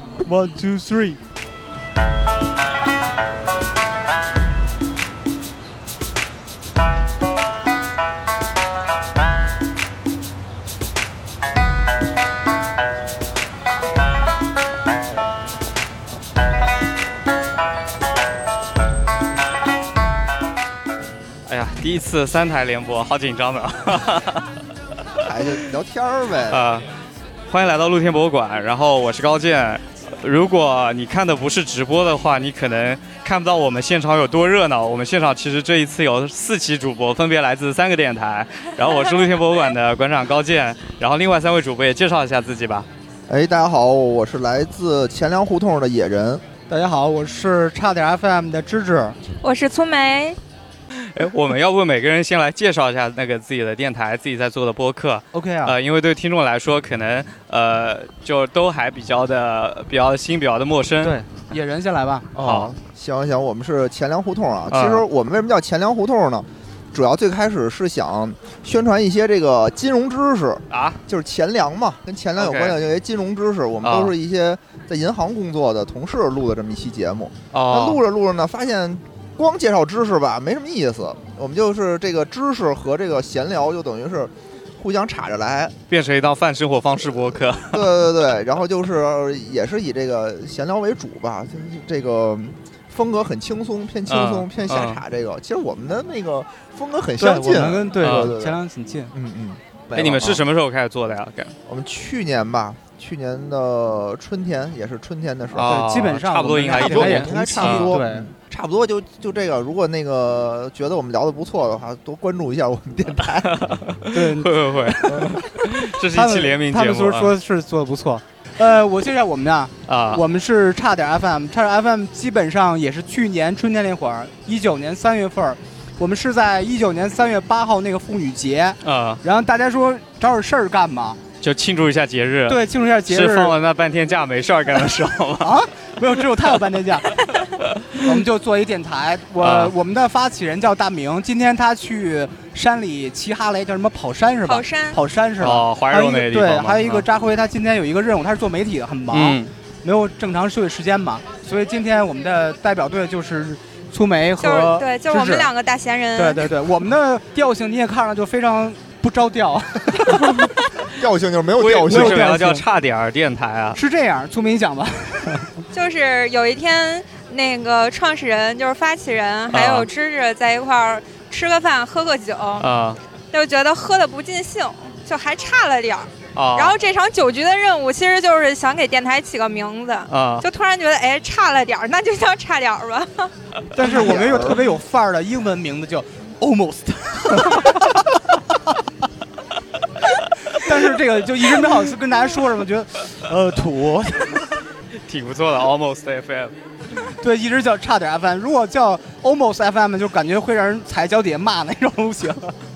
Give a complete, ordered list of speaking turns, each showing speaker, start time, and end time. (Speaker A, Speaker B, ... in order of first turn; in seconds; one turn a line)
Speaker A: 0.2-1.2
Speaker B: 21.5-24.5
Speaker C: 25.2-26.6
Speaker B: 26.5-26.9
Speaker B: 27.5-42.9
Speaker C: 43.3-46.4
Speaker A: 46.7-49.1
Speaker D: 49.4-50.4
Speaker B: 51.0-61.1
Speaker A: 55.3-55.7
Speaker A: 61.0-62.6
Speaker C: 62.4-85.7
Speaker B: 62.4-62.7
Speaker B: 64.7-65.0
Speaker B: 70.7-71.0
Speaker B: 72.4-72.8
Speaker B: 73.8-74.1
Speaker B: 77.5-78.0
Speaker B: 85.9-87.9
Speaker C: 87.7-98.6
Speaker B: 94.1-95.0
Speaker A: 97.2-99.1
Speaker B: 98.0-98.3
Speaker C: 99.1-100.4
Speaker B: 99.9-101.5
Speaker C: 101.7-105.9
Speaker B: 105.5-107.9
Speaker A: 105.6-108.3
Speaker C: 106.8-113.6
Speaker B: 113.4-117.3
Speaker A: 114.1-131.2
Speaker B: 119.9-120.2
Speaker B: 128.8-129.2
Speaker B: 131.4-135.5
Speaker A: 132.5-133.5
Speaker A: 135.4-137.1
Speaker A: 138.0-155.5
Speaker B: 139.4-139.7
Speaker D: 144.4-145.0
Speaker B: 145.4-147.0
Speaker B: 149.1-149.5
Speaker D: 154.4-156.5
Speaker A: 156.2-160.5
Speaker C: 160.9-162.2
Speaker B: 161.6-163.8
Speaker A: 161.8-162.6
Speaker A: 163.7-165.5
Speaker D: 165.7-172.7
Speaker B: 169.5-169.9
Speaker B: 172.6-173.0
Speaker D: 173.3-183.3
Speaker B: 176.3-176.8
Speaker B: 180.1-180.4
Speaker A: 183.7-188.3
Speaker C: 183.8-184.6
Speaker A: 190.5-194.4
Speaker B: 195.1-196.5
Speaker A: 197.2-202.5